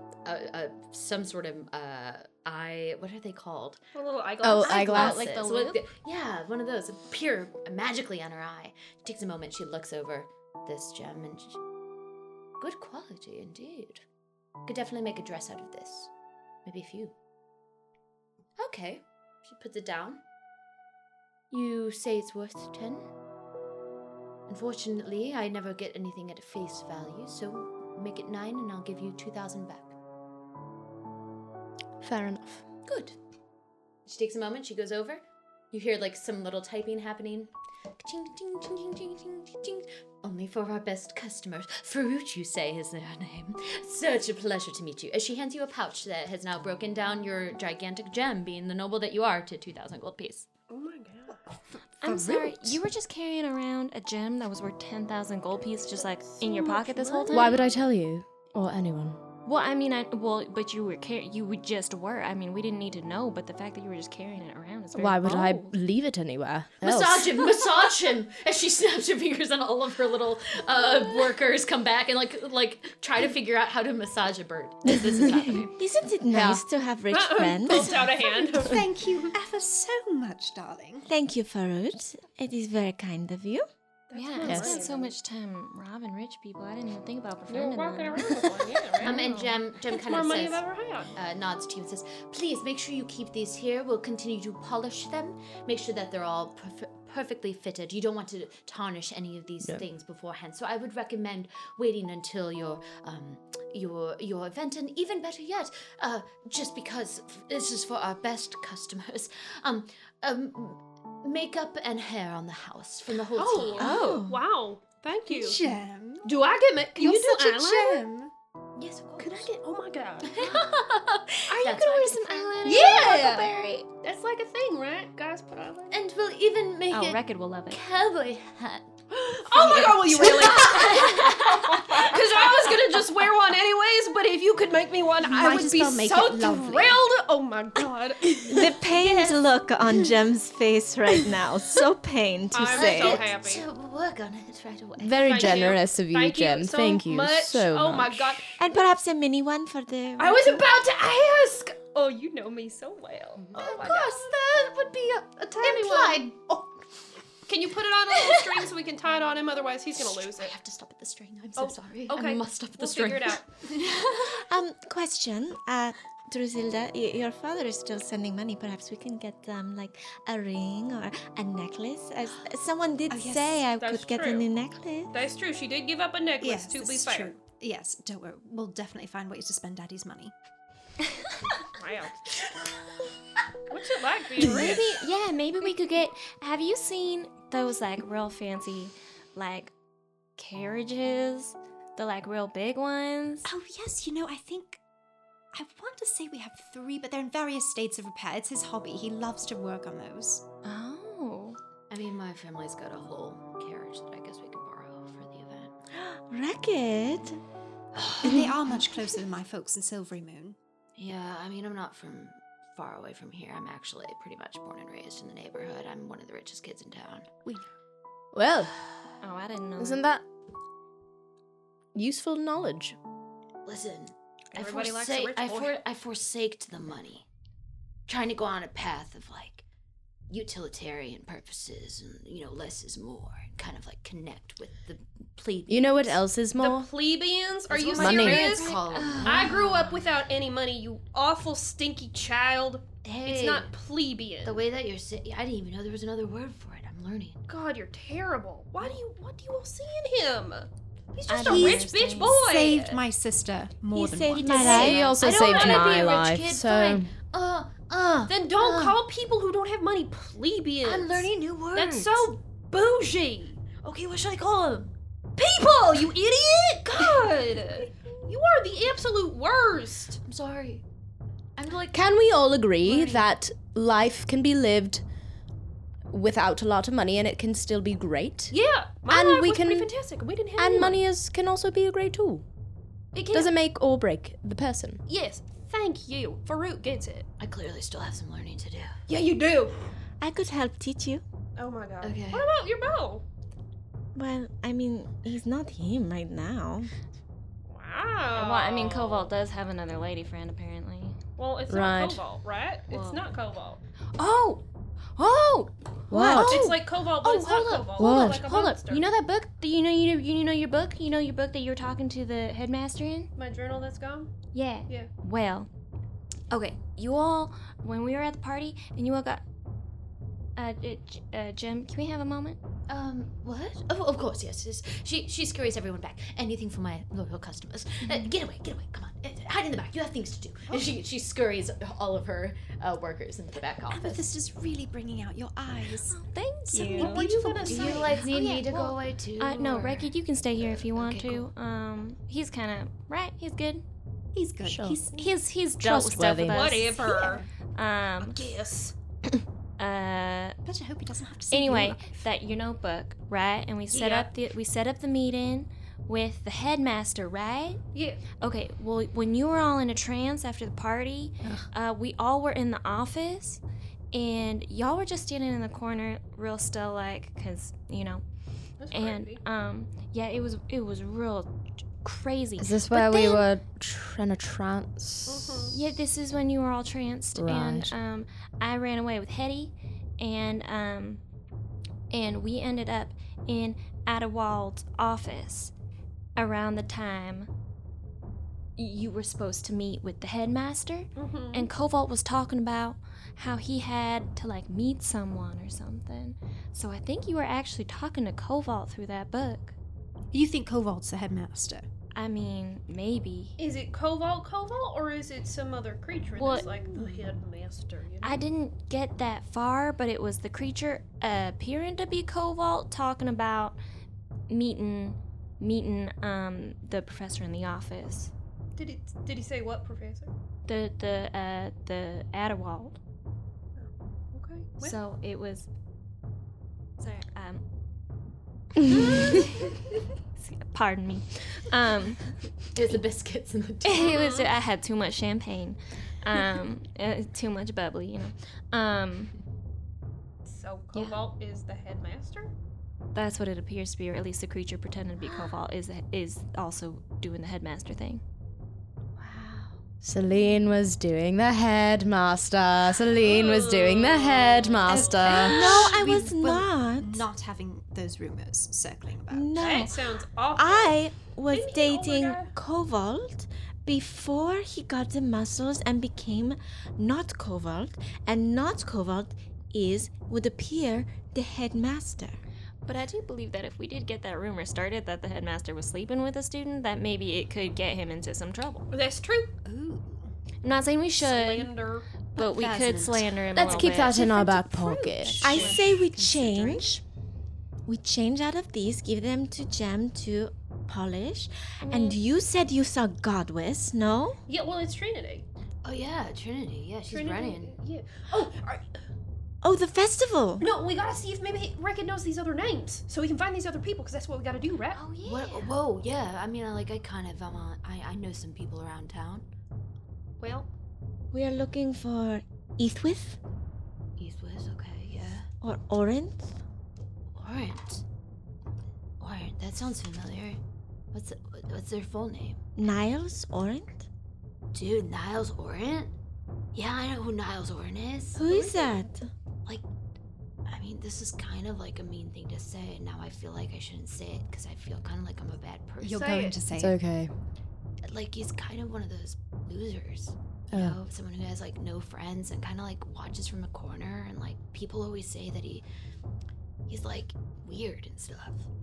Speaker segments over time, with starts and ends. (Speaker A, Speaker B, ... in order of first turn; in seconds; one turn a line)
Speaker A: 0.2-3.8
Speaker B: 3.9-5.2
Speaker C: 4.4-5.5
Speaker A: 4.6-11.6
Speaker D: 5.2-5.8
Speaker A: 12.6-14.0
Speaker A: 14.7-16.1
Speaker A: 16.6-17.1
Speaker A: 18.6-20.2
Speaker A: 21.5-23.1
Speaker A: 24.5-29.9
Speaker C: 32.0-32.6
Speaker A: 32.9-33.2
Speaker A: 34.1-50.5
Speaker B: 50.7-51.4
Speaker D: 52.0-57.6
Speaker E: 52.0-52.8
Speaker B: 56.2-57.6
Speaker C: 57.3-59.2
Speaker D: 59.4-65.7
Speaker C: 64.9-67.5
Speaker B: 65.3-65.7
Speaker A: 66.8-75.8
Speaker F: 75.8-78.1
Speaker C: 76.3-76.6
Speaker B: 77.1-79.3
Speaker E: 78.4-81.1
Speaker F: 81.1-83.7
Speaker B: 84.1-85.2
Speaker D: 84.1-89.6
Speaker C: 84.5-84.8
Speaker B: 87.5-89.2
Speaker A: 89.0-113.9
Speaker B: 89.9-91.1
Speaker B: 113.4-115.6
Speaker F: 113.8-114.4
Speaker E: 115.3-116.3
Speaker B: 116.2-118.1
Speaker E: 117.0-118.3
Speaker A: 118.8-119.5
Speaker B: 119.2-120.6
Speaker A: 120.3-122.8
Speaker D: 121.5-123.9
Speaker B: 122.6-126.0
Speaker A: 125.9-129.0
Speaker D: 126.9-127.8
Speaker B: 129.1-138.7
Speaker A: 129.6-132.1
Speaker E: 129.6-130.9
Speaker D: 131.0-131.9
Speaker E: 135.2-137.0
Speaker F: 138.5-143.3
Speaker B: 142.5-143.6
Speaker A: 142.7-145.8
Speaker C: 145.0-148.4
Speaker B: 145.2-148.6
Speaker F: 148.6-150.6
Speaker B: 150.2-154.3
Speaker A: 153.5-154.4
Speaker E: 153.6-156.7
Speaker B: 155.6-156.2
Speaker A: 155.6-156.1
Speaker B: 157.5-160.5
Speaker A: 160.2-164.4
Speaker B: 161.6-163.5
Speaker F: 164.2-175.1
Speaker E: 173.1-173.6
Speaker B: 173.8-174.5
Speaker B: 175.1-177.4
Speaker E: 176.4-180.3
Speaker B: 181.7-182.3
Speaker B: 183.7-185.0
Speaker E: 184.4-184.8
Speaker D: 184.5-189.7
Speaker D: 190.4-193.5
Speaker E: 193.4-194.8
Speaker E: 195.5-200.4
Speaker D: 200.6-201.6
Speaker A: 201.9-205.7
Speaker F: 205.9-207.4
Speaker A: 207.9-208.4
Speaker E: 208.2-210.6
Speaker A: 211.0-217.3
Speaker C: 218.3-218.8
Speaker D: 219.2-220.0
Speaker C: 219.8-220.2
Speaker C: 221.9-223.0
Speaker A: 223.6-227.3
Speaker B: 224.5-225.8
Speaker A: 228.1-229.7
Speaker A: 230.3-236.2
Speaker C: 235.7-236.9
Speaker B: 236.6-244.6
Speaker A: 237.7-239.7
Speaker C: 237.9-238.6
Speaker D: 238.4-239.9
Speaker A: 243.0-243.7
Speaker A: 244.4-247.4
Speaker B: 247.5-253.0
Speaker D: 251.3-252.4
Speaker E: 251.5-254.7
Speaker F: 253.9-255.0
Speaker A: 254.4-259.0
Speaker C: 254.6-257.1
Speaker B: 255.2-256.3
Speaker B: 258.3-263.6
Speaker A: 260.8-262.3
Speaker A: 263.8-264.9
Speaker B: 265.4-270.2
Speaker A: 270.2-270.9
Speaker A: 271.6-272.1
Speaker C: 271.9-275.0
Speaker B: 272.9-273.2
Speaker C: 276.1-278.6
Speaker B: 278.5-281.0
Speaker C: 279.1-279.9
Speaker C: 280.6-282.4
Speaker B: 283.1-283.6
Speaker C: 283.3-285.0
Speaker B: 285.1-287.3
Speaker A: 287.4-288.9
Speaker B: 289.1-289.9
Speaker F: 290.2-291.2
Speaker B: 291.6-293.2
Speaker A: 292.0-292.5
Speaker F: 294.1-296.9
Speaker B: 297.7-299.3
Speaker D: 298.3-301.2
Speaker B: 301.4-303.8
Speaker C: 301.7-302.2
Speaker D: 302.9-303.2
Speaker D: 304.2-304.6
Speaker D: 305.2-305.7
Speaker C: 306.1-306.8
Speaker F: 306.1-306.6
Speaker B: 306.4-309.1
Speaker D: 307.3-313.3
Speaker C: 307.9-308.8
Speaker B: 313.4-315.1
Speaker D: 314.5-315.7
Speaker D: 316.5-319.4
Speaker D: 320.6-322.6
Speaker A: 322.9-334.3
Speaker D: 328.0-328.3
Speaker E: 333.9-338.1
Speaker D: 336.1-337.3
Speaker B: 336.8-338.3
Speaker A: 337.6-341.5
Speaker D: 337.8-343.8
Speaker E: 344.3-345.3
Speaker C: 344.6-345.0
Speaker D: 345.1-347.0
Speaker C: 345.8-346.7
Speaker B: 346.4-347.4
Speaker E: 346.9-347.5
Speaker D: 347.8-348.4
Speaker E: 348.2-348.9
Speaker B: 348.4-348.8
Speaker D: 349.8-350.6
Speaker E: 350.6-352.3
Speaker D: 351.5-357.8
Speaker B: 353.9-354.3
Speaker B: 357.9-358.2
Speaker D: 358.4-363.6
Speaker E: 361.4-361.7
Speaker D: 364.1-368.2
Speaker B: 368.8-369.4
Speaker D: 368.9-373.5
Speaker C: 372.6-375.7
Speaker B: 375.3-375.8
Speaker D: 375.7-381.2
Speaker C: 377.4-377.9
Speaker D: 382.1-385.7
Speaker D: 386.4-387.5
Speaker D: 388.8-399.8
Speaker B: 391.1-391.7
Speaker E: 400.3-401.9
Speaker D: 402.1-403.6
Speaker B: 403.6-408.4
Speaker D: 406.4-406.7
Speaker E: 406.6-407.3
Speaker D: 408.2-413.8
Speaker D: 414.5-418.3
Speaker B: 418.8-420.3
Speaker D: 420.7-423.0
Speaker B: 423.8-425.0
Speaker D: 424.8-425.7
Speaker D: 427.0-427.6
Speaker D: 428.9-432.5
Speaker A: 432.7-434.1
Speaker D: 433.8-439.3
Speaker B: 434.0-434.5
Speaker B: 440.5-442.5
Speaker D: 440.9-441.2
Speaker D: 443.1-448.2
Speaker C: 450.0-455.7
Speaker B: 453.2-455.5
Speaker D: 454.5-455.6
Speaker E: 454.9-459.8
Speaker F: 455.6-457.3
Speaker F: 459.3-460.0
Speaker B: 459.6-462.5
Speaker F: 460.5-472.4
Speaker D: 472.9-478.9
Speaker B: 478.9-479.6
Speaker E: 479.6-480.3
Speaker D: 480.6-481.7
Speaker B: 481.2-482.1
Speaker D: 482.4-484.2
Speaker E: 482.4-486.9
Speaker C: 483.5-485.6
Speaker B: 483.6-485.8
Speaker F: 485.4-487.0
Speaker F: 487.9-494.4
Speaker D: 491.8-492.2
Speaker B: 494.5-495.5
Speaker A: 495.8-497.8
Speaker B: 497.1-498.5
Speaker E: 498.4-498.8
Speaker F: 499.6-500.6
Speaker B: 500.6-505.0
Speaker D: 504.9-505.7
Speaker A: 505.2-509.4
Speaker B: 510.4-510.7
Speaker F: 511.3-513.4
Speaker A: 514.2-515.5
Speaker F: 515.6-516.6
Speaker A: 517.4-518.0
Speaker A: 519.2-520.6
Speaker A: 521.1-522.6
Speaker F: 522.8-524.1
Speaker A: 524.7-526.1
Speaker A: 526.7-528.4
Speaker F: 528.4-529.3
Speaker B: 528.4-529.0
Speaker A: 530.7-536.4
Speaker E: 536.0-537.0
Speaker B: 536.2-536.5
Speaker C: 536.2-537.3
Speaker A: 538.0-545.8
Speaker C: 540.7-541.0
Speaker A: 546.9-548.7